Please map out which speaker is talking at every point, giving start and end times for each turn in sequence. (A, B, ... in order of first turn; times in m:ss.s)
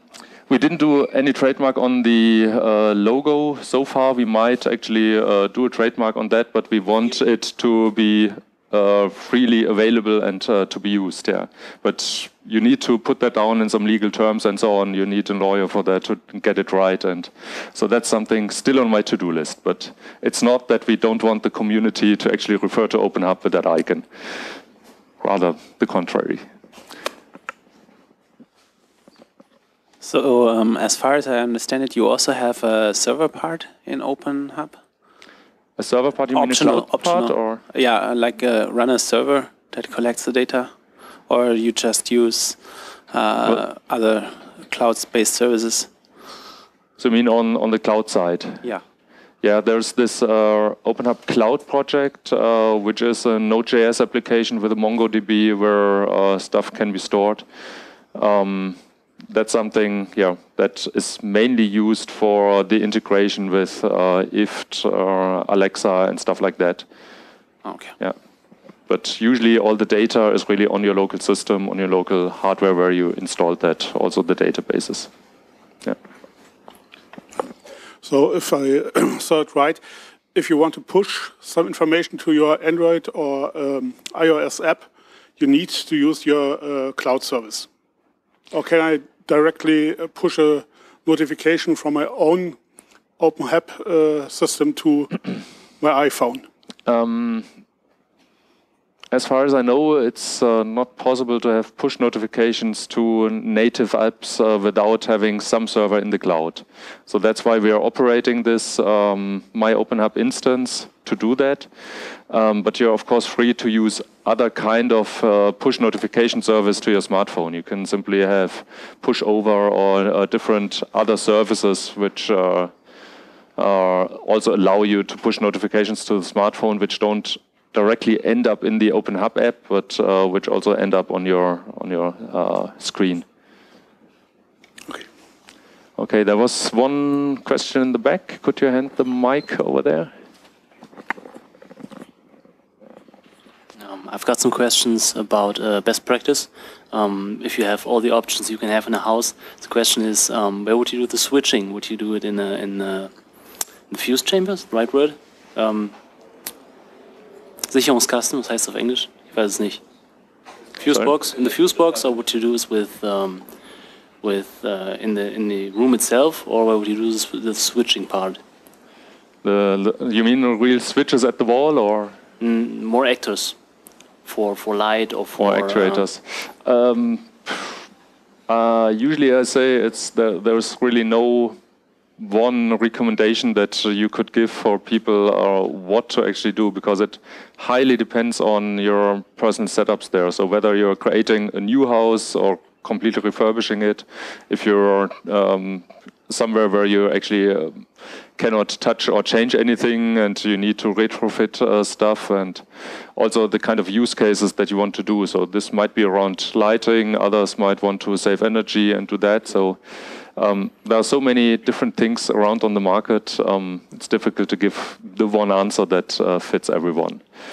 0:00.5-0:24.5 A
0:25.2-0:26.4 A
0:30.0-0:34.7 B
0:35.8-0:37.6 A
0:36.3-0:40.7 B
0:41.3-0:42.6 B
0:43.1-0:45.7 B
0:47.0-0:48.6 A
0:49.4-0:57.4 A
0:58.1-1:06.8 A
1:07.6-1:07.9 B
1:08.9-1:15.1 A
1:18.0-1:19.8 C
1:20.3-1:27.7 C
1:28.5-1:32.6 C
1:33.2-1:36.4 C
1:36.9-1:37.5 A
1:39.1-2:02.7 A
2:03.6-2:13.2 A
2:16.0-2:20.1 A
2:23.8-2:33.1 B
2:33.9-2:36.0 B
2:37.7-2:39.8 B
2:40.8-2:43.5 B
2:44.2-2:48.4 B
2:49.4-2:52.2 A
2:52.4-2:53.6 B
2:54.2-2:56.0 B
2:55.4-2:57.8 A
2:58.5-3:01.6 A
3:02.2-3:37.2 A